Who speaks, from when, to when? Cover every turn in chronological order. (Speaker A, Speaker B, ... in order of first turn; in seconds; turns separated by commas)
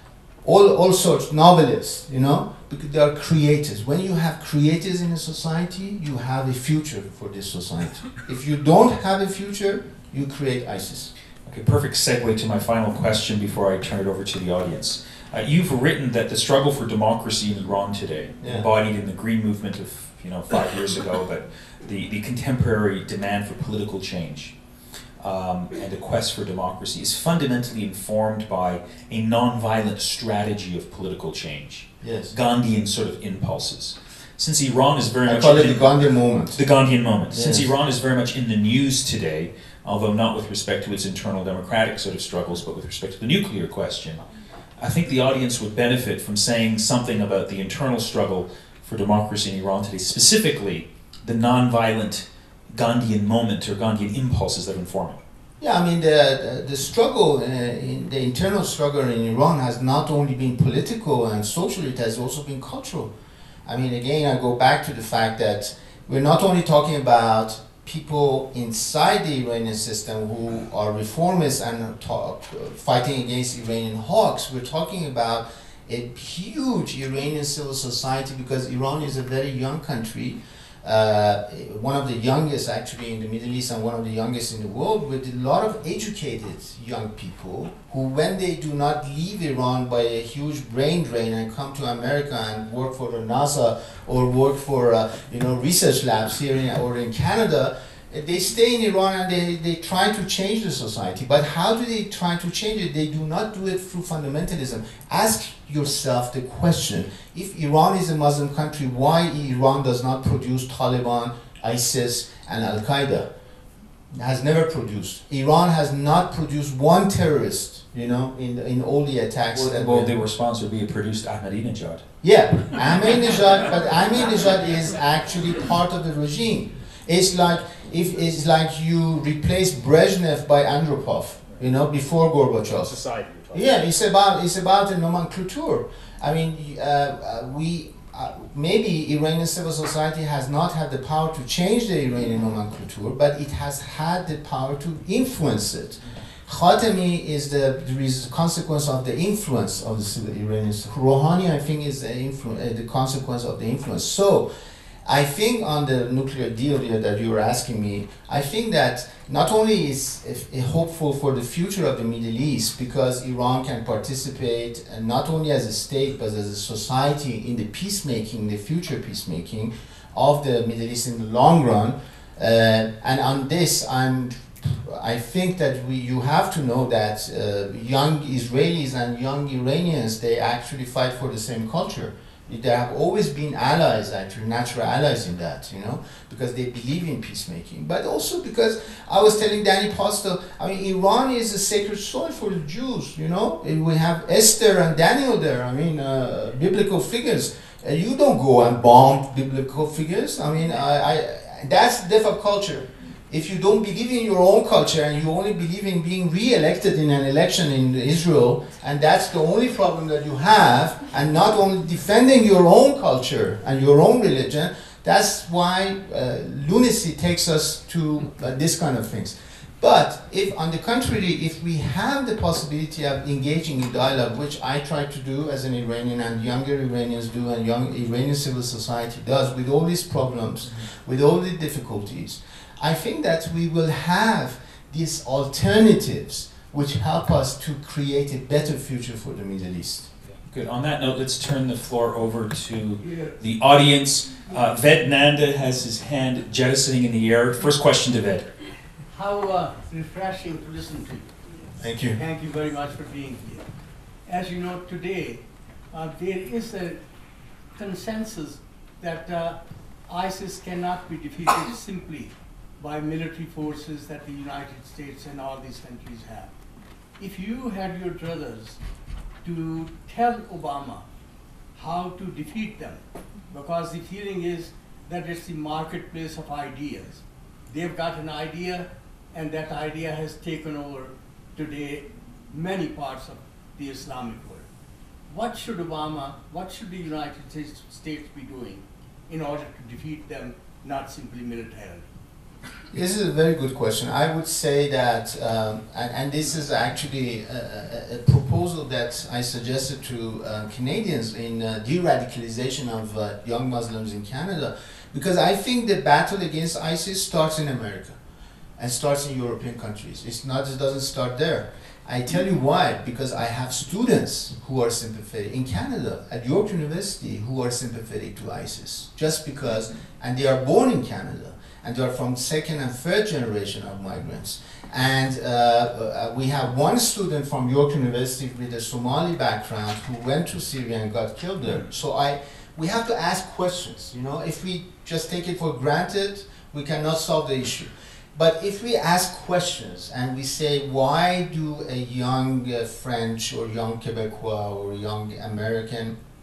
Speaker A: 0.4-11.1, Speaker B: 11.5-24.5, Speaker A: 18.4-18.7, Speaker B: 25.2-35.9, Speaker A: 32.0-32.3, Speaker A: 35.2-36.6, Speaker B: 36.5-44.2, Speaker A: 37.3-37.7, Speaker B: 44.8-55.2, Speaker A: 55.6-63.1, Speaker A: 63.7-113.3, Speaker A: 114.1-120.1, Speaker B: 119.5-122.0, Speaker A: 122.2-133.0, Speaker B: 132.8-133.9, Speaker A: 133.5-154.5, Speaker A: 155.1-240.1, Speaker B: 240.3-248.5, Speaker C: 243.0-243.3, Speaker C: 249.1-253.6, Speaker A: 251.8-252.2, Speaker C: 254.3-257.0, Speaker C: 257.8-266.5, Speaker C: 267.2-268.8, Speaker C: 269.4-271.0, Speaker C: 271.7-273.0, Speaker C: 273.5-284.7, Speaker C: 285.3-292.1, Speaker A: 292.9-308.2, Speaker A: 308.8-346.2